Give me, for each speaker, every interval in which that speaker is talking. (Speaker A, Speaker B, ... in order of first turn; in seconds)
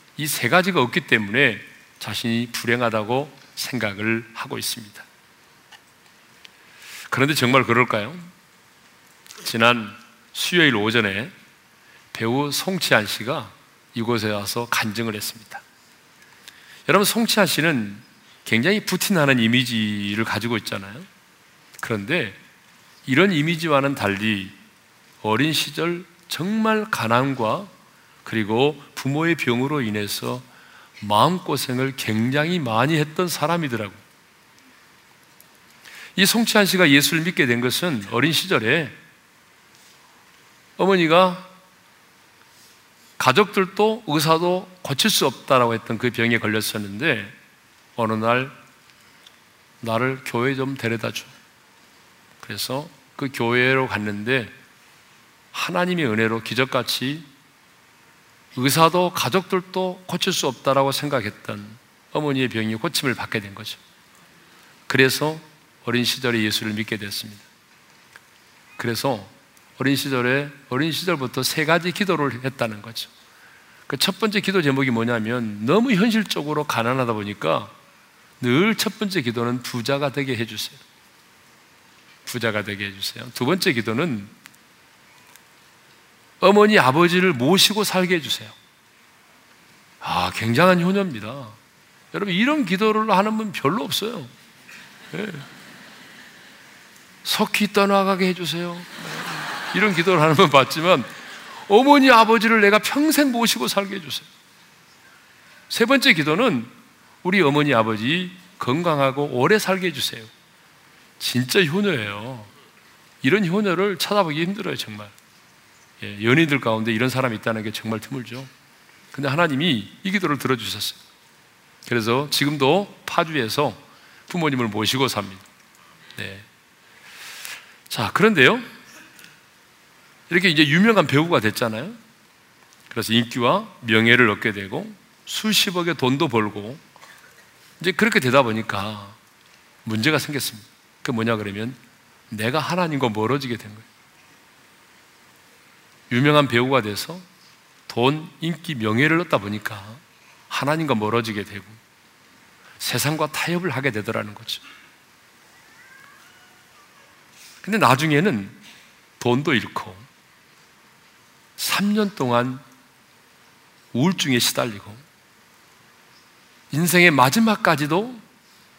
Speaker A: 0.2-5.0, 7.1-8.3, 9.4-11.3, 12.1-15.6, 16.9-21.1, 21.8-22.4, 23.1-24.5, 25.2-27.7, 28.2-30.4, 31.0-34.0, 36.1-38.9, 40.8-41.5, 43.2-47.3, 48.0-48.5, 49.8-51.3, 52.4-54.5, 55.5-57.3, 58.5-63.8, 64.9-67.4, 68.8-73.1, 73.9-77.7, 78.4-80.8, 82.2-84.3, 86.4-88.5, 90.0-91.5, 92.1-94.3, 95.1-95.5, 97.2-101.1, 101.7-104.3, 105.7-106.7, 107.2-110.3, 111.2-112.5, 113.2-115.1, 116.0-118.5, 119.1-121.0, 121.8-125.4, 126.2-126.5, 127.9-128.7, 130.3-132.0, 132.9-136.8, 137.8-139.2, 139.8-141.8, 142.3-143.8, 146.1-147.2, 147.9-151.8, 152.8-154.6, 157.6-158.5, 159.2-160.0, 161.6-162.6, 163.9-165.0, 166.7-168.2